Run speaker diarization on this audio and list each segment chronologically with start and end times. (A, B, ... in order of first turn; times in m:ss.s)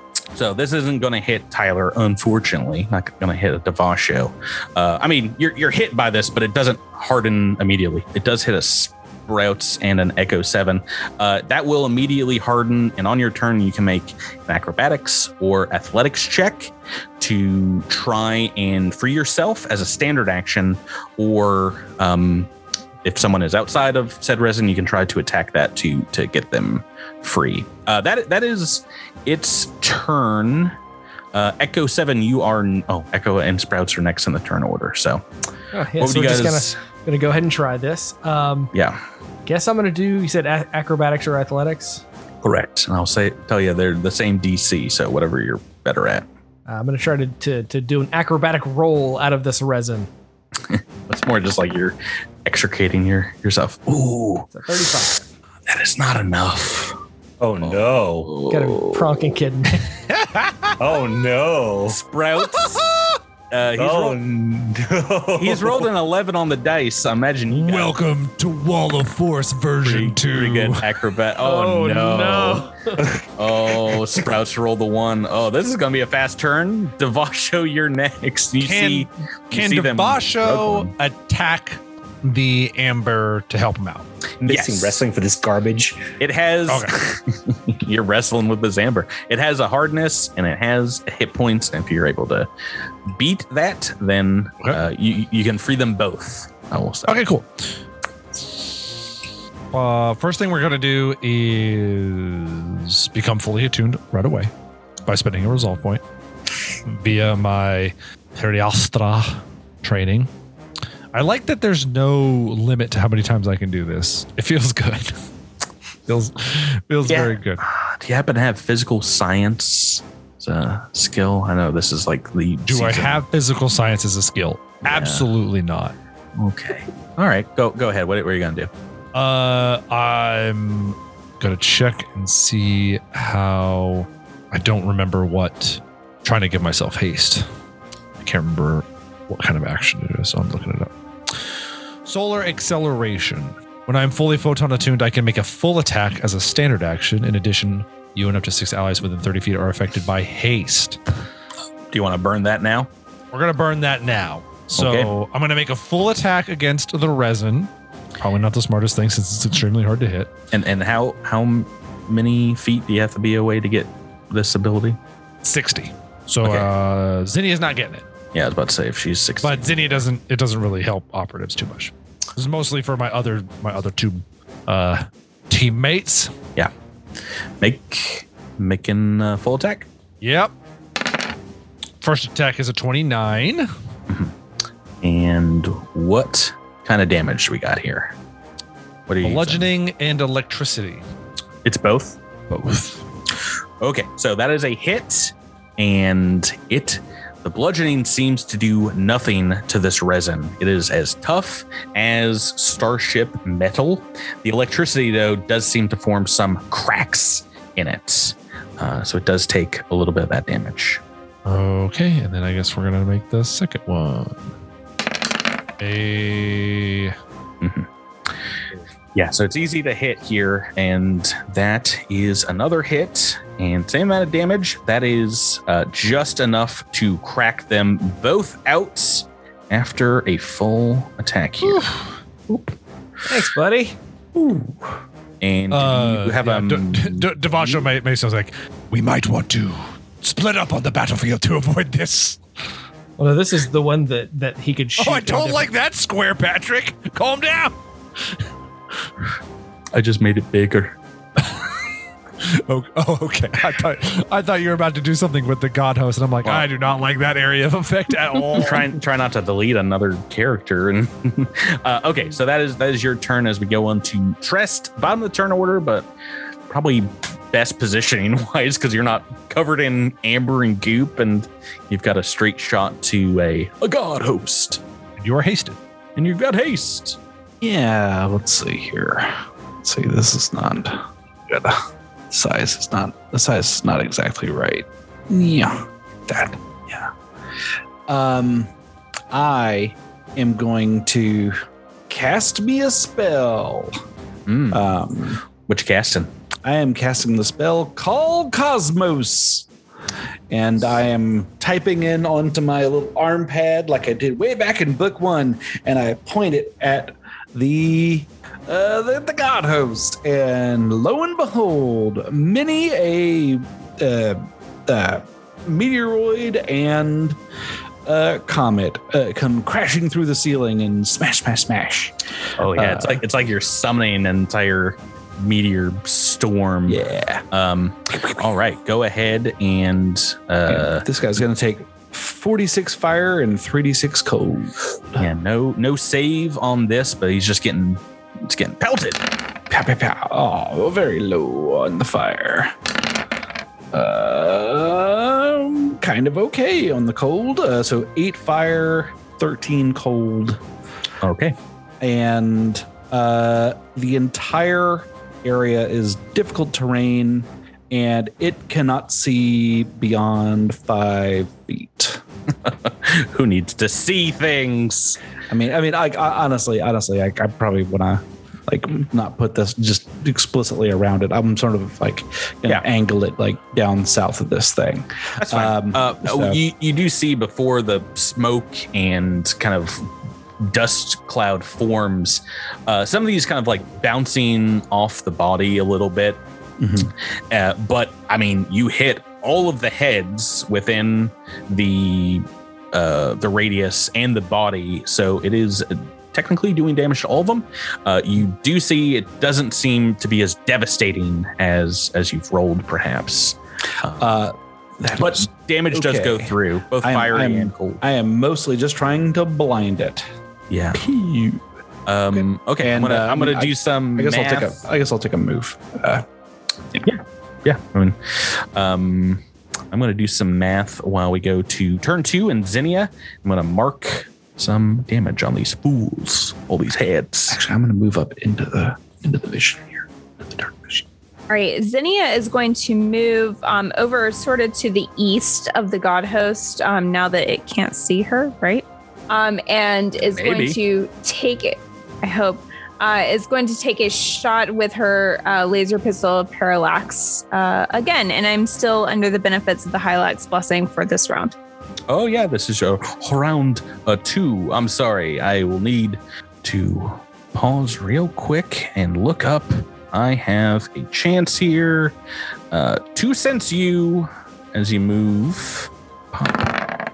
0:00.3-0:22.5 A
0:23.0-0:30.7 A
0:31.3-0:35.2 A
0:35.7-0:38.7 B
0:36.0-0:36.8 A
0:38.7-0:39.0 A
0:39.4-0:42.0 B
0:42.4-0:46.2 A
0:46.7-0:50.1 B
0:50.6-0:55.1 A
0:54.5-0:55.2 B
0:55.7-0:56.9 A
0:57.4-0:58.4 C
0:57.6-0:59.4 A
0:58.5-0:59.8 B
1:00.1-1:00.7 D
1:00.8-1:02.0 C
1:01.9-1:02.8 A
1:02.4-1:03.1 D
1:03.5-1:04.2 A
1:03.8-1:05.9 C
1:05.4-1:07.9 A
1:07.5-1:10.8 D
1:09.8-1:12.7 A
1:11.4-1:12.9 B
1:13.4-1:20.9 A
1:18.6-1:24.1 D
1:24.4-1:26.0 C
1:24.4-1:25.0 A
1:26.2-1:32.5 A
1:26.7-1:26.9 D
1:33.1-1:37.2 A
1:37.0-1:37.7 D
1:38.3-1:39.0 D
1:39.7-1:44.5 D
1:45.0-1:46.0 D
1:46.8-1:50.3 D
1:51.1-1:55.1 D
1:56.1-1:57.6 D
1:57.0-2:03.2 A
2:02.6-2:05.9 D
2:04.8-2:05.3 A
2:06.4-2:08.7 A
2:09.1-2:17.4 D
2:18.2-2:21.5 D
2:22.0-2:31.0 D
2:31.9-2:32.9 A
2:33.3-2:40.3 D
2:34.8-2:35.1 A
2:40.5-2:45.0 A
2:45.4-2:48.0 D
2:46.4-2:46.7 A
2:48.3-2:49.7 A
2:49.4-2:56.3 D
2:57.6-2:59.9 A
3:00.2-3:00.5 D
3:02.0-3:03.7 D
3:04.1-3:04.3 A
3:05.0-3:08.1 A
3:09.1-3:09.7 A
3:09.2-3:11.0 D
3:11.6-3:12.2 A
3:12.5-3:13.0 D
3:13.8-3:31.0 A
3:31.4-3:34.5 D
3:35.8-3:37.1 D
3:37.6-3:38.4 A
3:39.1-3:51.9 A
3:51.6-3:52.0 D
3:52.5-3:52.7 A
3:53.3-3:54.0 B
3:54.3-3:54.8 A
3:55.4-3:57.8 A
3:55.7-4:02.4 D
4:03.2-4:05.7 B
4:05.0-4:07.8 D
4:09.9-4:11.0 A
4:12.4-4:18.9 D
4:18.5-4:26.1 A
4:26.7-4:34.8 A
4:35.2-4:35.8 D
4:36.2-4:37.2 A
4:37.6-4:47.1 E
4:48.1-4:48.7 E
4:49.3-4:53.9 E
4:54.5-4:54.8 A
4:54.7-4:55.4 E
4:55.6-4:56.3 A
4:56.6-4:59.7 E
5:00.5-5:17.4 E
5:18.0-5:23.2 E
5:22.6-5:27.0 A
5:26.9-5:27.4 E
5:27.5-5:31.0 A
5:28.2-5:28.4 E
5:30.7-5:35.3 E
5:35.2-5:39.2 A
5:39.7-5:42.7 E
5:43.9-5:50.6 E
5:51.2-5:51.5 A
5:52.0-6:02.2 E
6:02.6-6:05.2 A
6:05.5-6:16.6 E
6:15.4-6:20.0 A
6:20.6-6:26.4 A
6:26.8-6:27.1 E
6:27.5-6:44.3 A
6:44.2-6:50.2 E
6:45.1-6:48.0 A
6:50.7-6:51.0 A
6:50.9-6:51.6 E
6:52.1-6:54.8 A
6:52.3-6:56.2 E
6:57.0-7:07.6 A
7:07.5-7:11.0 E
7:11.5-7:31.5 F
7:20.3-7:20.8 A
7:32.1-7:42.1 A
7:42.7-7:46.7 A